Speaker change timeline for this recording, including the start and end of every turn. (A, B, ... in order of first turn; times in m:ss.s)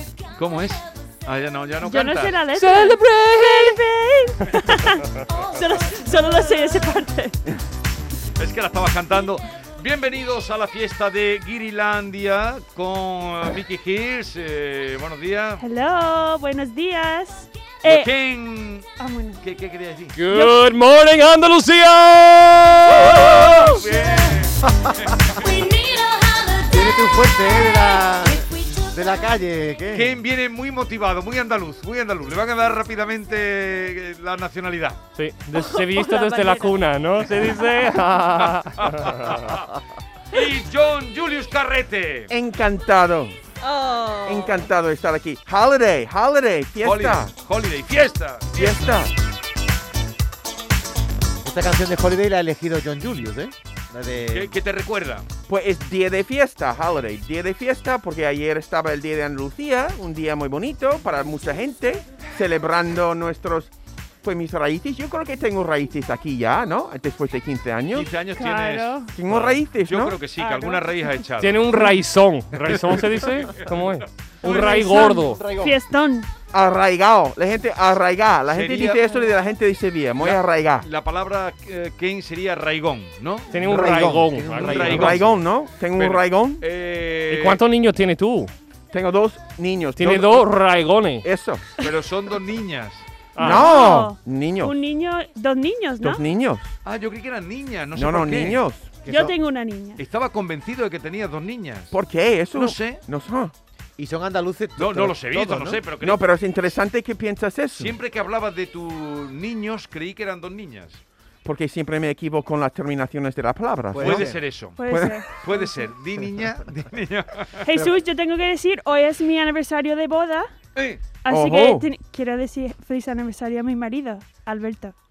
0:00.2-0:02.4 A
0:01.8-0:07.4 B
0:02.6-0:03.8 C
0:08.4-0:15.6 A
0:15.6-0:18.1 B
0:17.8-0:18.8 A
0:19.0-0:19.4 B
0:19.4-0:20.2 A
0:20.1-0:23.7 C
0:20.3-0:20.6 B
0:23.0-0:25.5 A
0:23.4-0:23.8 B
0:26.6-0:30.2 D
0:29.9-0:35.0 A
0:35.1-0:39.7 C
0:35.5-0:36.8 B
0:38.8-0:39.6 A
0:40.3-0:42.3 A
0:42.3-0:43.4 E
0:43.6-0:44.6 B
0:44.2-0:47.3 E
0:46.8-0:48.8 A
0:48.5-0:49.1 E
0:51.4-0:54.5 D
0:54.3-0:55.2 A
0:55.5-1:08.1 E
1:07.9-1:11.7 A
1:08.3-1:09.1 B
1:09.1-1:10.2 E
1:10.4-1:11.2 B
1:11.4-1:15.4 C
1:12.5-1:13.7 A
1:14.4-1:16.3 B
1:14.4-1:15.7 A
1:16.5-1:20.9 E
1:18.5-1:19.2 A
1:20.2-1:23.8 A
1:23.5-1:25.2 C
1:23.6-1:25.4 D
1:24.6-1:25.3 A
1:24.8-1:26.6 E
1:25.9-1:27.6 A
1:27.3-1:28.5 C
1:28.9-1:30.5 E
1:30.0-1:31.3 C
1:31.2-1:31.7 E
1:31.8-1:33.1 A
1:33.3-1:33.7 C
1:33.4-1:34.7 E
1:33.4-1:36.2 B
1:36.0-1:36.8 E
1:36.8-1:38.6 A
1:37.9-1:38.9 E
1:39.0-1:39.3 D
1:39.0-1:40.0 B
1:40.0-1:41.9 A
1:41.9-1:43.5 E
1:42.5-1:43.0 A
1:44.0-1:45.8 D
1:44.8-1:46.2 A
1:46.0-1:48.0 E
1:47.7-1:51.0 A
1:51.4-1:54.3 E
1:53.9-1:54.4 D
1:54.0-1:57.7 A
1:54.8-1:55.8 B
1:54.9-1:55.2 E
1:57.7-2:00.5 B
2:00.7-2:01.1 A
2:01.2-2:04.9 B
2:01.3-2:01.9 E